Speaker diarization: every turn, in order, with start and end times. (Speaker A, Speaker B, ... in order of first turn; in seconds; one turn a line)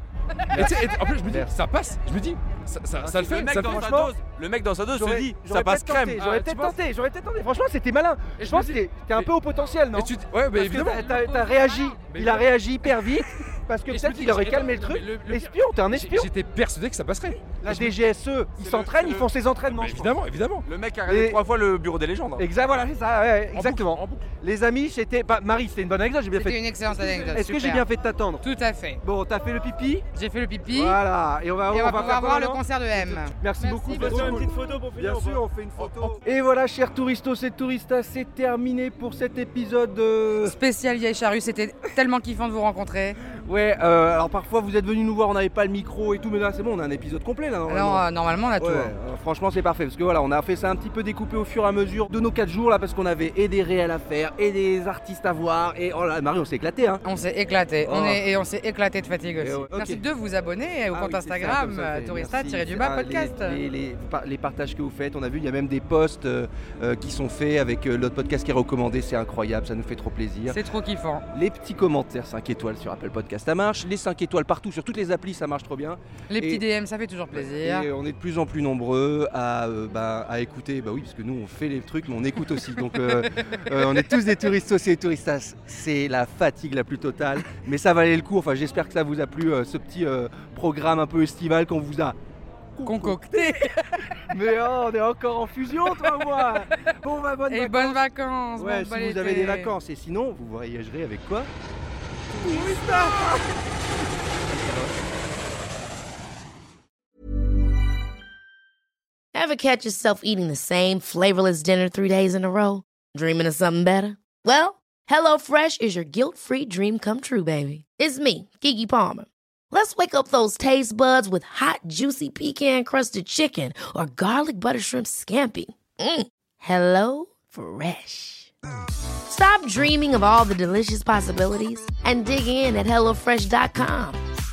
Speaker A: 0.5-1.5
Speaker B: 0.5-3.9
Speaker A: 3.0-4.1
Speaker C: 3.1-6.2
Speaker A: 4.9-16.3
Speaker B: 6.2-6.8
Speaker B: 8.4-9.3
Speaker B: 9.9-11.5
Speaker B: 12.1-12.5
Speaker B: 13.9-17.9
Speaker A: 17.6-20.1
Speaker C: 18.6-19.3
Speaker B: 19.7-20.7
Speaker C: 20.6-22.4
Speaker A: 21.1-21.4
Speaker A: 22.4-28.4
Speaker B: 23.5-24.3
Speaker D: 26.4-27.9
Speaker D: 28.4-29.0
Speaker A: 29.0-30.1
Speaker D: 30.1-31.0
Speaker A: 30.7-40.6
Speaker D: 31.7-34.4
Speaker C: 33.9-35.4
Speaker D: 40.5-43.2
Speaker A: 43.5-48.1
Speaker D: 47.7-48.9
Speaker A: 48.6-57.0
Speaker D: 57.0-63.6
Speaker A: 57.8-58.2
Speaker A: 59.4-60.0
Speaker A: 60.9-70.6
Speaker D: 70.5-71.2
Speaker A: 71.3-76.6
Speaker D: 76.3-77.9
Speaker A: 77.3-92.2
Speaker A: 92.8-93.4
Speaker D: 92.8-94.0
Speaker A: 94.3-98.0
Speaker D: 97.5-99.7
Speaker A: 98.6-101.5
Speaker A: 102.3-103.4
Speaker D: 102.5-103.1
Speaker A: 104.5-104.9
Speaker E: 109.3-128.5
Speaker E: 129.3-134.2